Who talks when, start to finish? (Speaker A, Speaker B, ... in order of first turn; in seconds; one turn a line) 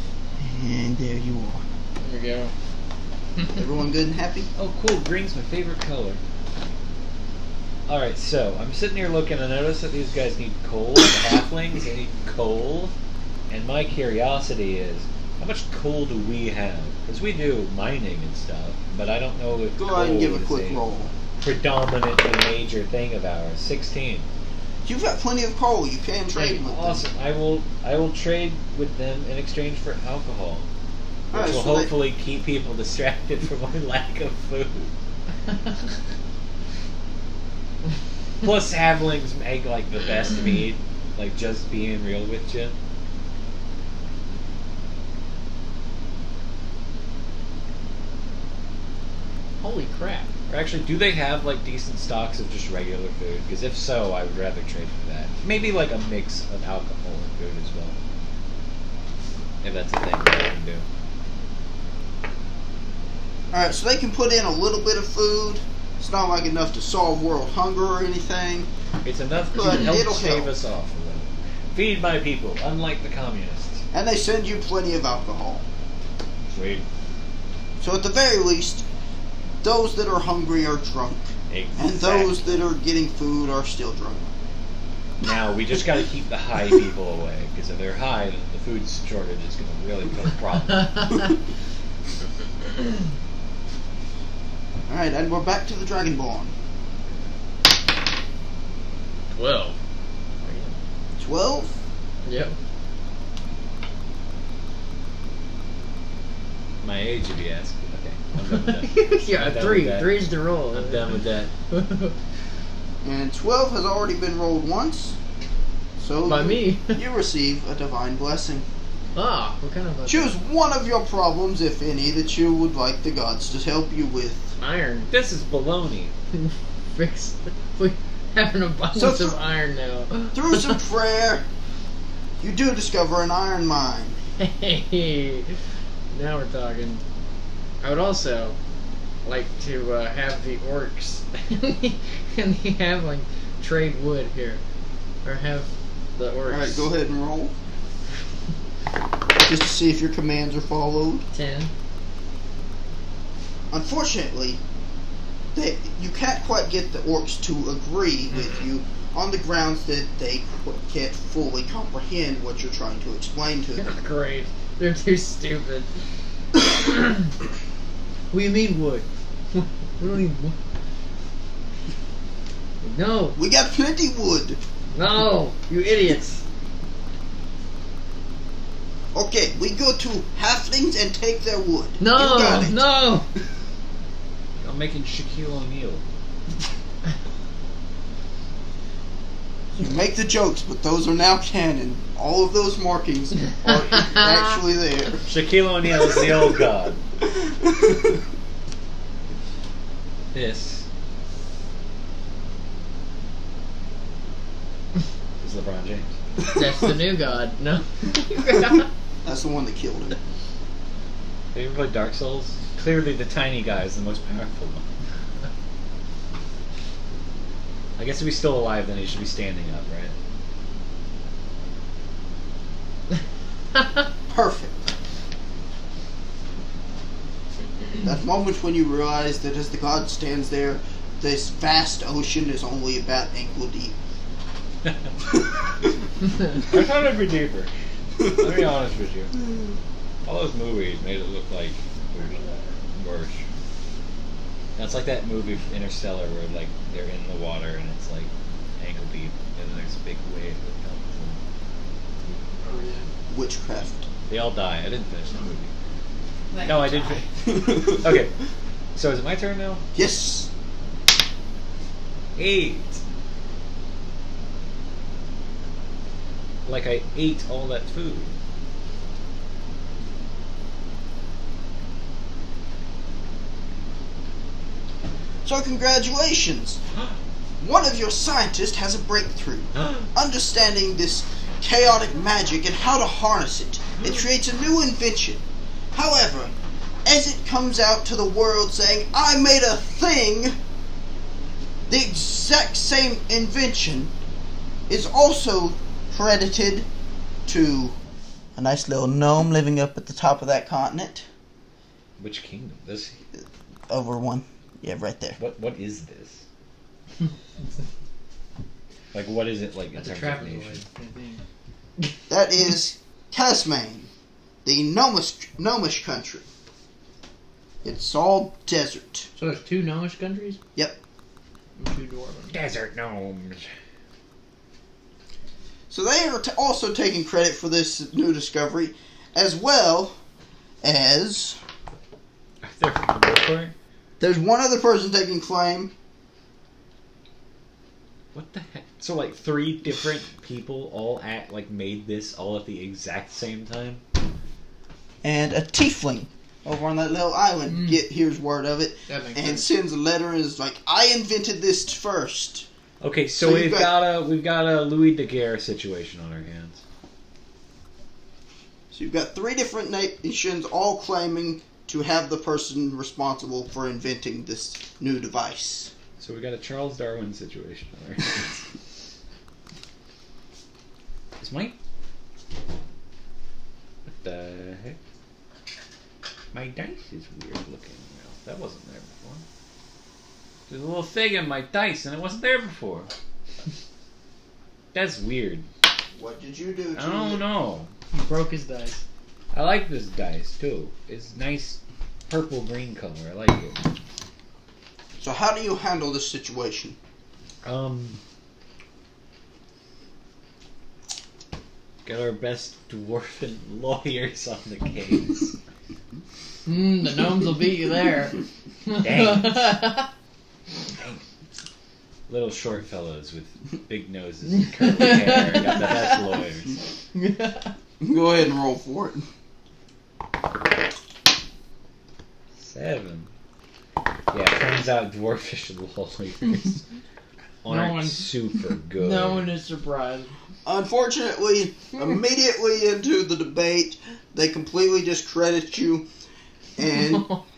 Speaker A: 0.4-1.6
Speaker B: 2.0-2.5
Speaker A: 3.5-4.5
Speaker C: 4.6-6.2
Speaker C: 7.9-12.9
Speaker C: 13.5-20.8
Speaker A: 19.8-21.1
Speaker C: 21.4-24.3
Speaker A: 24.8-27.0
Speaker C: 26.3-30.7
Speaker A: 31.3-31.9
Speaker C: 31.3-34.9
Speaker C: 38.4-42.7
Speaker B: 49.6-50.3
Speaker C: 50.5-58.0
Speaker C: 59.6-60.8
Speaker A: 63.5-68.7
Speaker C: 69.0-73.8
Speaker A: 69.5-70.5
Speaker A: 73.9-75.6
Speaker C: 76.5-76.8
Speaker A: 77.8-78.8
Speaker A: 79.6-84.3
Speaker C: 81.5-82.7
Speaker C: 85.2-91.3
Speaker A: 94.9-96.5
Speaker B: 99.3-99.8
Speaker B: 100.4-100.7
Speaker A: 101.2-101.8
Speaker B: 102.2-102.5
Speaker C: 106.8-111.5
Speaker B: 108.6-111.1
Speaker B: 111.7-112.2
Speaker A: 113.0-115.2
Speaker A: 116.0-118.6
Speaker B: 116.2-117.0
Speaker B: 119.2-120.3
Speaker A: 120.1-124.5
Speaker B: 124.6-125.1
Speaker C: 125.1-126.1
Speaker B: 126.3-130.8
Speaker A: 128.9-129.4
Speaker A: 130.3-131.4
Speaker A: 132.4-134.2
Speaker B: 134.4-135.5
Speaker B: 136.1-137.0
Speaker B: 137.8-138.6
Speaker B: 139.2-144.6
Speaker B: 145.2-146.9
Speaker A: 146.5-147.5
Speaker A: 149.4-151.2
Speaker B: 151.3-151.7
Speaker A: 153.7-154.6
Speaker A: 155.5-163.9
Speaker B: 163.8-165.9
Speaker B: 168.3-170.5
Speaker B: 172.8-173.4
Speaker A: 173.3-174.6
Speaker B: 174.9-176.4
Speaker A: 179.1-182.8
Speaker B: 182.0-183.3
Speaker C: 184.6-186.0
Speaker A: 189.7-195.3
Speaker C: 195.3-197.0
Speaker A: 197.3-198.1
Speaker C: 200.3-200.8
Speaker C: 205.4-206.1
Speaker B: 206.5-208.9
Speaker A: 209.2-210.2
Speaker C: 211.5-214.8
Speaker C: 218.0-220.1
Speaker A: 224.3-224.8
Speaker A: 228.0-233.9
Speaker C: 236.6-237.7
Speaker C: 238.2-239.3
Speaker C: 240.2-242.4
Speaker C: 242.9-243.4
Speaker C: 244.8-251.4
Speaker B: 252.6-253.1
Speaker A: 253.3-254.1
Speaker C: 254.3-255.7
Speaker C: 256.6-258.3
Speaker A: 257.4-258.0
Speaker C: 258.9-259.8
Speaker A: 259.9-260.5
Speaker C: 262.4-263.0
Speaker C: 266.6-268.3
Speaker A: 275.4-276.8
Speaker A: 277.6-285.4
Speaker C: 279.8-280.1
Speaker A: 285.9-286.5
Speaker A: 287.0-290.5
Speaker A: 291.9-294.1
Speaker A: 294.9-296.9
Speaker A: 297.5-297.9
Speaker A: 298.6-301.2
Speaker C: 302.2-303.2
Speaker A: 303.3-305.4
Speaker C: 305.4-306.4
Speaker C: 309.1-310.8
Speaker B: 309.9-311.4
Speaker A: 312.3-314.1
Speaker A: 314.6-316.4
Speaker A: 317.8-319.3
Speaker B: 319.4-320.6
Speaker B: 321.8-322.5
Speaker C: 322.5-323.7
Speaker A: 325.9-330.2
Speaker A: 330.8-331.6
Speaker C: 332.6-333.7
Speaker A: 334.2-335.9
Speaker C: 338.3-344.0
Speaker A: 345.2-352.7
Speaker B: 347.7-348.0
Speaker B: 349.1-349.7
Speaker C: 353.0-356.8
Speaker A: 353.4-353.9
Speaker A: 358.9-365.9
Speaker C: 366.2-368.7
Speaker C: 371.4-371.8
Speaker C: 374.2-375.0
Speaker C: 376.5-379.4
Speaker C: 380.7-383.1
Speaker C: 384.9-385.6
Speaker A: 386.1-387.4
Speaker C: 386.9-387.9
Speaker B: 388.1-389.0
Speaker C: 389.5-393.8
Speaker A: 395.2-396.9
Speaker C: 397.6-398.2
Speaker C: 402.0-405.6
Speaker B: 406.6-410.1
Speaker C: 409.0-409.9
Speaker C: 410.9-411.2
Speaker C: 412.3-416.7
Speaker B: 414.8-416.2
Speaker B: 417.1-417.7
Speaker A: 418.0-419.3
Speaker C: 422.6-423.3
Speaker C: 424.3-426.8
Speaker C: 427.6-429.6
Speaker B: 427.7-428.3
Speaker B: 428.9-430.3
Speaker A: 430.6-436.1
Speaker A: 436.8-437.3